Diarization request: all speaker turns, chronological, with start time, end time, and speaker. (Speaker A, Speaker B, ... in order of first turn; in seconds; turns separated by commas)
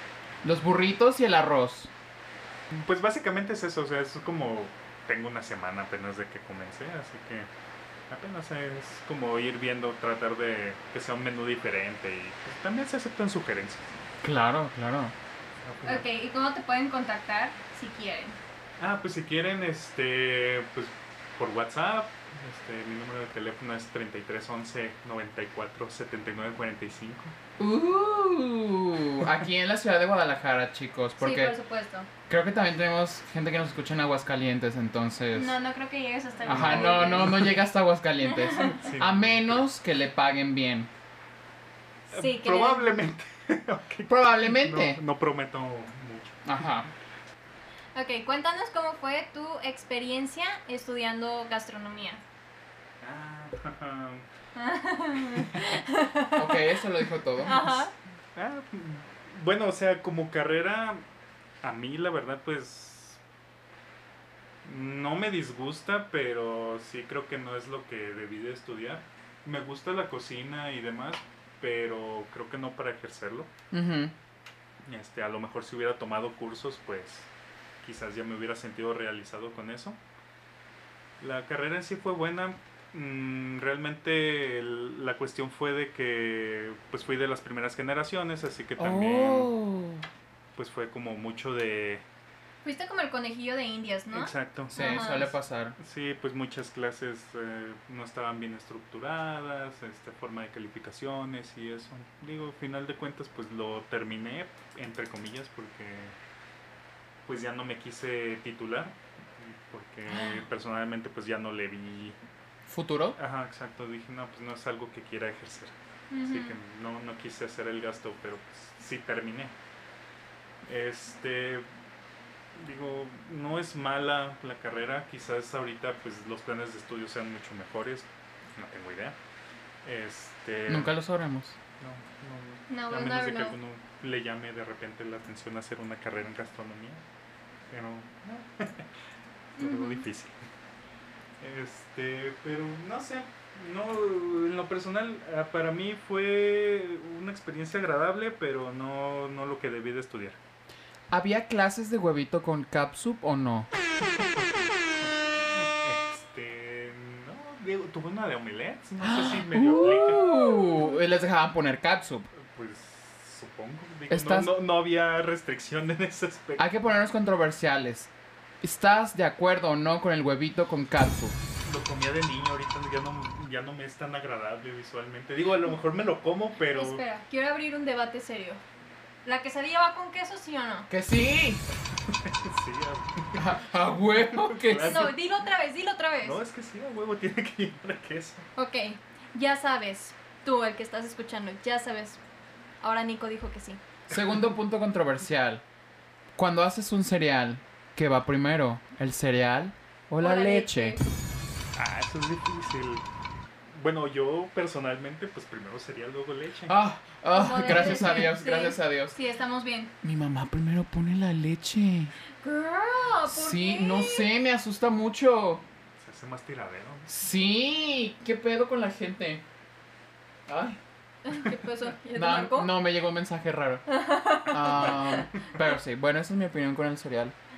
Speaker A: 0.4-1.9, Speaker B: 2.7-7.5, Speaker B: 8.1-13.9, Speaker A: 14.2-15.1, Speaker B: 15.6-16.1, Speaker C: 15.8-18.4, Speaker B: 18.8-27.4, Speaker A: 27.6-31.6, Speaker C: 31.2-32.1, Speaker A: 32.3-35.5, Speaker C: 35.3-37.4, Speaker B: 36.4-37.6, Speaker A: 36.5-40.9, Speaker C: 38.3-38.8, Speaker B: 38.8-39.6, Speaker B: 42.1-46.4, Speaker C: 42.1-42.9, Speaker A: 44.1-45.0, Speaker A: 46.5-46.9, Speaker C: 47.9-52.2, Speaker B: 53.0-54.2, Speaker C: 54.6-56.5, Speaker A: 56.4-57.7, Speaker C: 57.4-57.9, Speaker B: 58.4-61.0, Speaker B: 61.6-63.2, Speaker B: 64.6-73.5, Speaker A: 73.7-74.2, Speaker B: 74.8-77.3, Speaker B: 77.8-80.0, Speaker B: 81.2-89.5, Speaker A: 88.8-90.1, Speaker B: 90.6-92.0, Speaker C: 92.6-95.3, Speaker B: 94.1-95.3, Speaker A: 94.7-95.8, Speaker B: 95.8-106.2, Speaker B: 107.3-112.2, Speaker A: 112.7-113.2, Speaker B: 113.2-119.5, Speaker C: 116.1-116.6, Speaker B: 120.7-121.7, Speaker B: 122.6-129.2, Speaker B: 129.8-130.9, Speaker A: 130.7-131.6, Speaker B: 131.8-137.0, Speaker C: 132.7-133.6, Speaker B: 137.7-138.9, Speaker B: 139.6-140.4, Speaker C: 139.6-140.0, Speaker B: 141.4-150.4, Speaker A: 151.1-153.7, Speaker B: 154.2-160.4, Speaker A: 159.0-162.3, Speaker B: 162.4-166.7, Speaker A: 164.1-164.6, Speaker A: 166.6-171.4, Speaker B: 171.6-177.0, Speaker C: 176.7-178.6, Speaker C: 179.2-180.9, Speaker A: 180.9-181.7, Speaker B: 182.1-183.6, Speaker A: 183.4-185.1, Speaker B: 184.2-185.2, Speaker C: 184.8-186.4, Speaker B: 186.2-188.5, Speaker C: 188.6-192.2, Speaker C: 192.8-193.8, Speaker A: 194.1-195.6, Speaker A: 196.3-201.0, Speaker C: 200.2-201.1, Speaker B: 201.8-203.1, Speaker B: 203.7-206.8, Speaker A: 206.7-209.2, Speaker C: 207.3-209.9, Speaker A: 210.0-212.1, Speaker C: 212.4-214.3, Speaker A: 213.3-215.6, Speaker B: 216.0-217.2, Speaker A: 217.1-219.4, Speaker A: 220.5-220.8, Speaker C: 221.2-222.8, Speaker A: 222.1-223.8, Speaker C: 223.9-225.3, Speaker A: 224.5-227.3